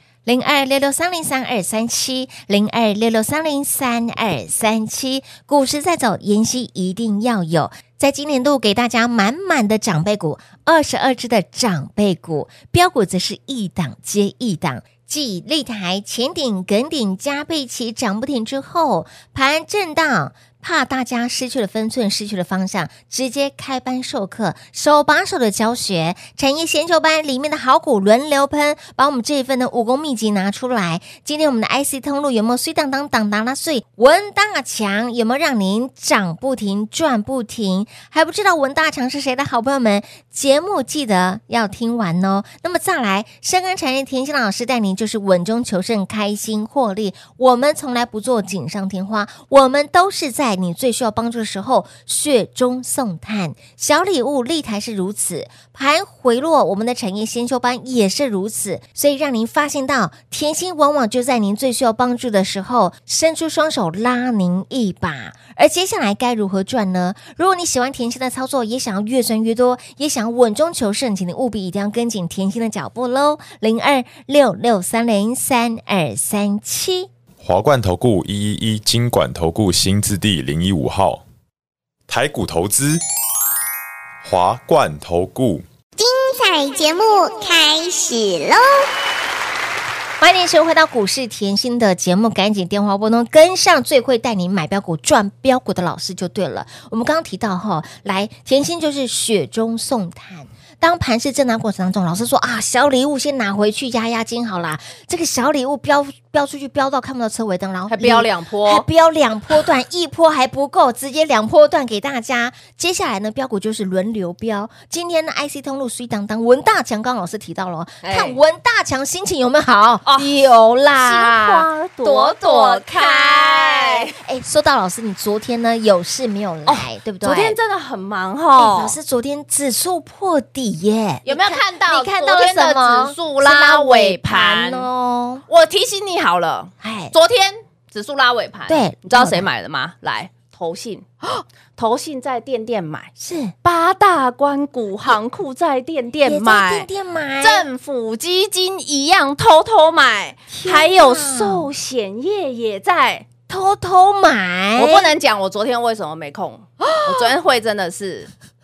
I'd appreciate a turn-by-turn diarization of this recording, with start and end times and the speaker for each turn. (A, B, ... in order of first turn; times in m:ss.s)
0:00.2-1:17.1 A
1:17.4-1:21.2 B
1:22.1-1:23.0 B
1:24.2-1:25.6 B
1:26.0-1:28.6 C
1:30.2-2:07.6 A
1:47.9-1:48.8 D
1:58.0-1:58.4 D
2:00.0-2:00.3 D
2:01.0-2:04.2 D
2:06.7-2:08.9 D
2:08.6-2:15.4 A
2:11.2-2:14.9 D
2:15.5-2:21.0 D
2:16.8-2:17.1 A
2:18.7-2:19.4 A
2:21.8-2:23.1 D
2:23.2-2:23.5 A
2:23.6-2:26.9 D
2:26.2-2:27.6 A
2:27.4-2:33.3 D
2:30.5-2:31.7 A
2:33.5-2:35.1 A
2:34.8-2:38.3 D
2:36.8-2:37.3 A